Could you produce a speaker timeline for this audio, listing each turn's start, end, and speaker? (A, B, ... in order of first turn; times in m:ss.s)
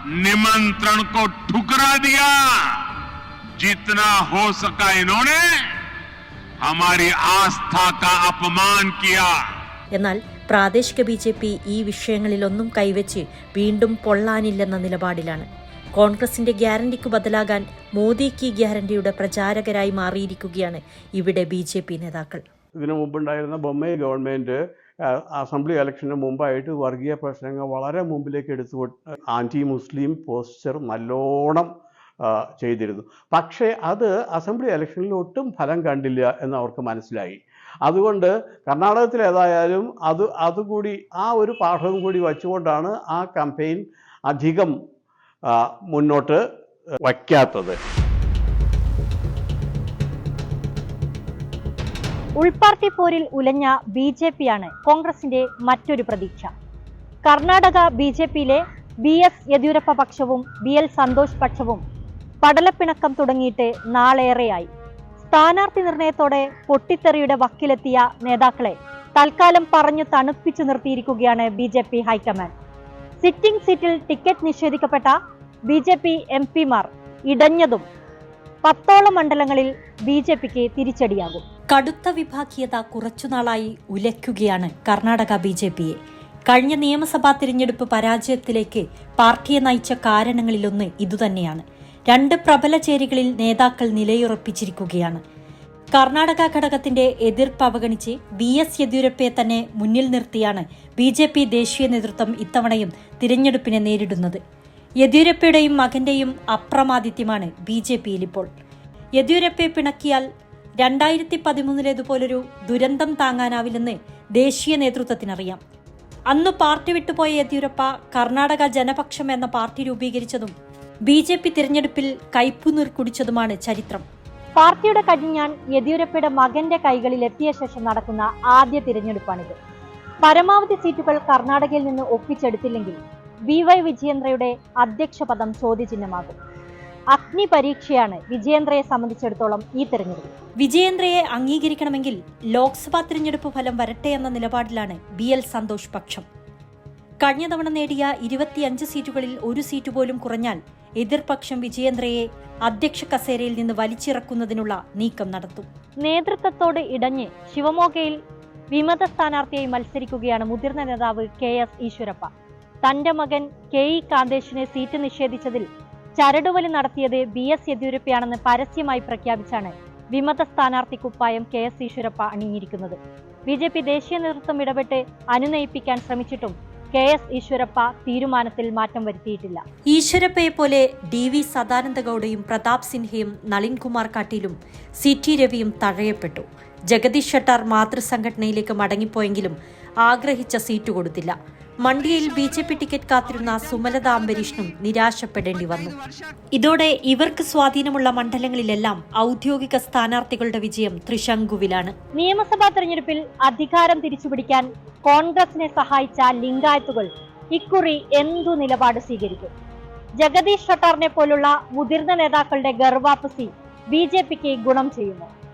0:00.2-0:02.3 A
0:03.6-0:05.4 A
0:06.6-0:09.3 A
0:10.0-0:15.4 B
0:16.0-0:22.4 B
0:22.8-0:31.7 C
0:32.2-0:44.7 C
0:45.5-0:46.4 C
0:47.0-0:47.8 C
0:52.4-0:56.5 D
0:57.2-1:01.8 D
1:02.4-1:04.7 D
1:05.3-1:12.5 D
1:13.2-1:15.2 D
1:15.7-1:17.8 D
1:18.6-1:21.4 D
1:21.7-1:26.0 B
1:26.5-1:35.2 B
1:36.0-1:44.4 B
1:45.0-1:48.5 B
1:49.2-1:50.3 B
1:50.8-1:55.6 B
1:56.3-2:00.5 B
2:01.1-2:04.0 B
2:04.6-2:09.6 D
2:10.2-2:13.0 D
2:13.5-2:16.4 D
2:17.1-2:20.3 D
2:20.6-2:26.2 B
2:27.2-2:35.6 B
2:36.0-2:38.2 D
2:38.7-2:42.3 D
2:42.8-2:45.6 D
2:46.2-2:59.6 D
2:59.9-3:15.9 B
3:15.7-3:16.2 A
3:16.5-3:21.9 B
3:22.1-3:29.5 D
3:30.2-3:35.3 D